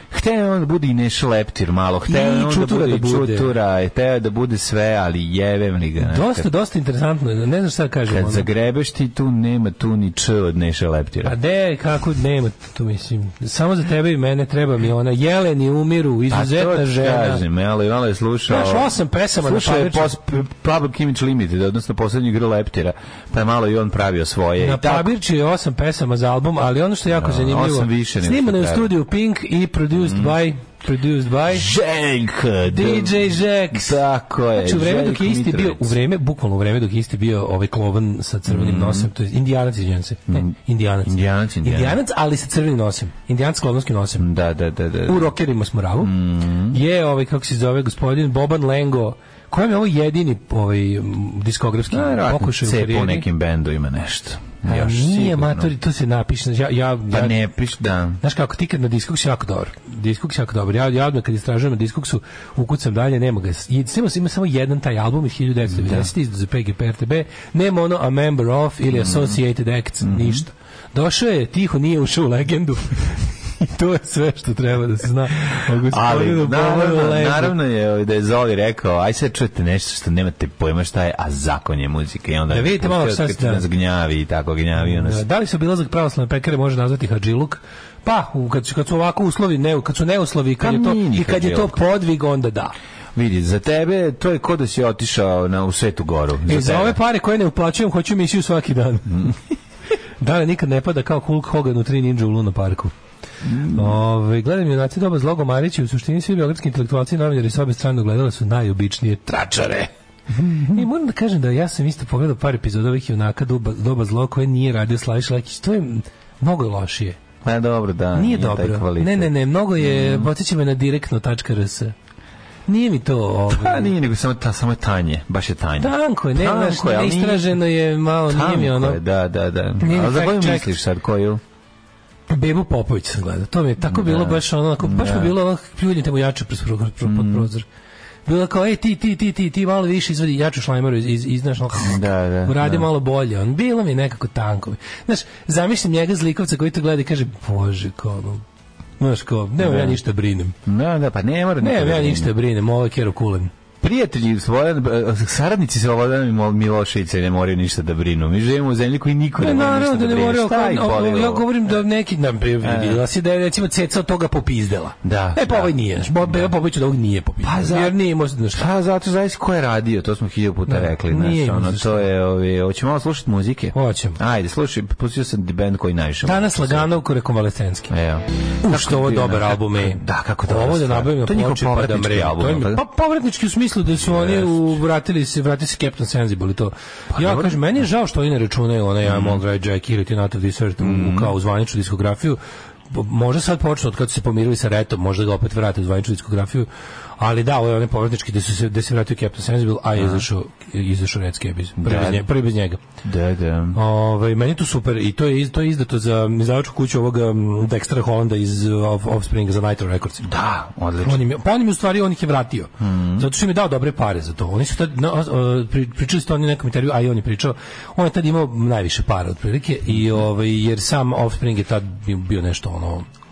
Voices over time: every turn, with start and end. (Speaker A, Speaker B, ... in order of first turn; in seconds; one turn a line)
Speaker A: 0.1-6.5
Speaker B: 2.1-3.5
Speaker B: 6.0-8.5
Speaker A: 8.1-11.3
Speaker B: 11.2-17.4
Speaker A: 16.3-25.1
Speaker B: 18.5-20.1
Speaker B: 24.6-31.7
Speaker A: 27.1-28.9
Speaker A: 29.9-30.4
Speaker A: 31.5-36.0
Speaker B: 32.7-34.0
Speaker B: 34.6-44.3
Speaker A: 38.5-39.1
Speaker A: 41.0-42.0
Speaker A: 44.2-45.3
Speaker B: 45.1-46.1
Speaker A: 46.0-46.8
Speaker B: 46.7-53.3
Speaker A: 51.9-55.7
Speaker B: 54.6-57.4
Speaker A: 57.1-58.2
Speaker B: 58.2-77.5
Speaker A: 65.7-66.1
Speaker A: 68.9-69.4
Speaker A: 70.0-70.4
Speaker A: 75.5-85.2
Speaker B: 82.5-83.6
Speaker B: 84.8-92.7
Speaker A: 90.6-91.8
Speaker A: 93.1-97.0
Speaker B: 96.5-99.3
Speaker B: 100.2-102.9
Speaker A: 103.4-104.0
Speaker B: 103.6-117.2
Speaker A: 110.4-110.8
Speaker A: 117.4-120.3
Speaker B: 118.1-121.9
Speaker B: 122.7-123.9
Speaker A: 123.5-127.6
Speaker B: 125.8-129.0
Speaker A: 128.2-131.4
Speaker B: 129.8-130.7
Speaker B: 132.3-137.7
Speaker A: 133.8-135.3
Speaker A: 137.0-137.5
Speaker B: 138.2-148.4
Speaker A: 141.8-142.9
Speaker B: 149.0-150.5
Speaker A: 149.6-150.0
Speaker A: 150.6-152.3
Speaker B: 151.6-153.5
Speaker A: 153.8-161.7
Speaker B: 159.4-168.6
Speaker A: 162.6-163.0
Speaker A: 165.0-166.5
Speaker A: 167.4-167.9
Speaker A: 168.5-177.0
Speaker B: 170.7-172.1
Speaker B: 173.7-174.2
Speaker B: 176.2-177.9
Speaker A: 177.9-182.8
Speaker B: 178.6-196.7
Speaker A: 184.0-184.7
Speaker A: 187.1-187.8
Speaker A: 189.0-189.4
Speaker A: 190.8-191.3
Speaker B: 197.2-202.8
Speaker A: 199.9-200.2
Speaker A: 201.8-202.2
Speaker A: 203.0-203.8
Speaker B: 203.7-210.3
Speaker A: 210.2-211.2
Speaker B: 211.0-223.1
Speaker A: 212.8-213.3